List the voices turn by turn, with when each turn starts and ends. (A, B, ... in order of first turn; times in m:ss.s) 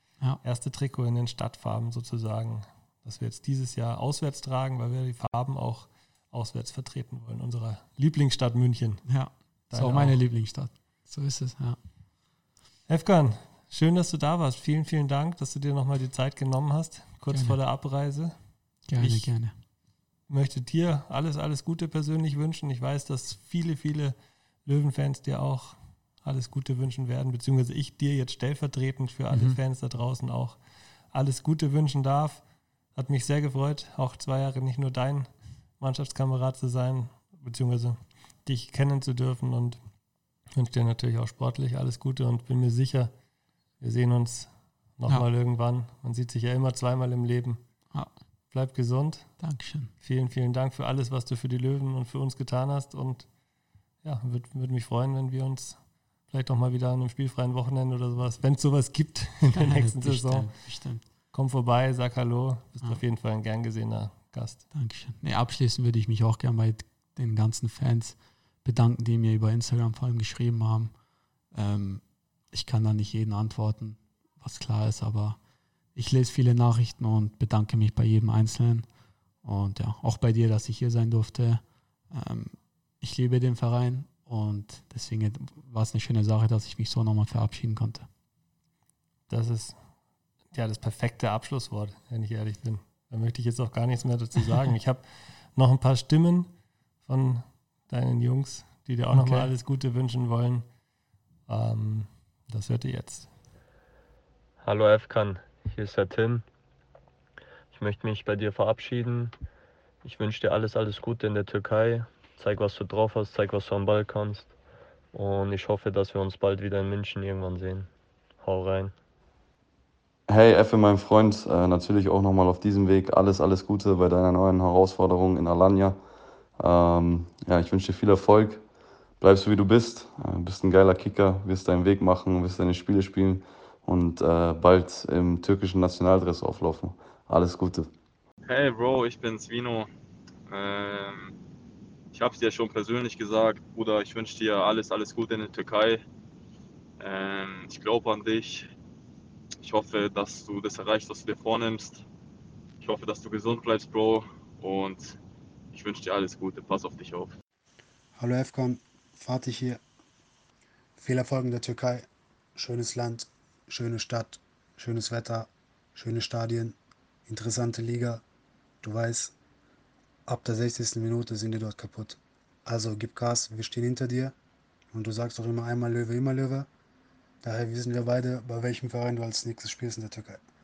0:00.4-0:09.0 A
0:09.1-0:11.8 B
0:09.7-0:10.2 A
0:12.9-0:18.3 A
0:17.3-0:17.6 B
0:18.9-0:19.6 B
0:19.0-0:19.3 A
0:20.3-0:32.4 A
0:29.3-0:29.6 B
0:33.0-0:39.8 A
0:40.6-0:43.1 A
0:43.8-0:47.6 A
0:48.5-0:49.3 A
0:49.4-0:49.9 B
0:50.0-0:53.3 A
0:54.0-1:00.5 A
0:59.5-1:01.0 B
1:01.3-1:04.6 A
1:04.7-1:10.9 B
1:11.5-1:15.4 B
1:16.0-1:18.9 B
1:19.4-1:28.1 B
1:29.3-1:29.8 A
1:30.5-1:36.5 A
1:37.0-1:40.7 A
1:39.1-1:39.5 B
1:41.5-1:43.3 A
1:44.6-1:46.4 C
1:47.7-1:49.3 C
1:50.0-1:54.5 C
1:55.1-1:57.9 C
1:58.4-1:58.9 C
2:00.3-2:06.0 D
2:06.6-2:08.6 D
2:09.2-2:17.9 D
2:18.5-2:19.9 E
2:20.5-2:21.4 E
2:22.1-2:26.0 E
2:27.0-2:28.7 E
2:29.6-2:32.0 E
2:32.8-2:35.2 E
2:35.7-2:37.4 E
2:38.2-2:39.8 F
2:41.0-2:48.2 F
2:48.8-2:49.4 F
2:50.3-2:54.4 F
2:54.9-2:56.7 F
2:57.4-3:00.4 F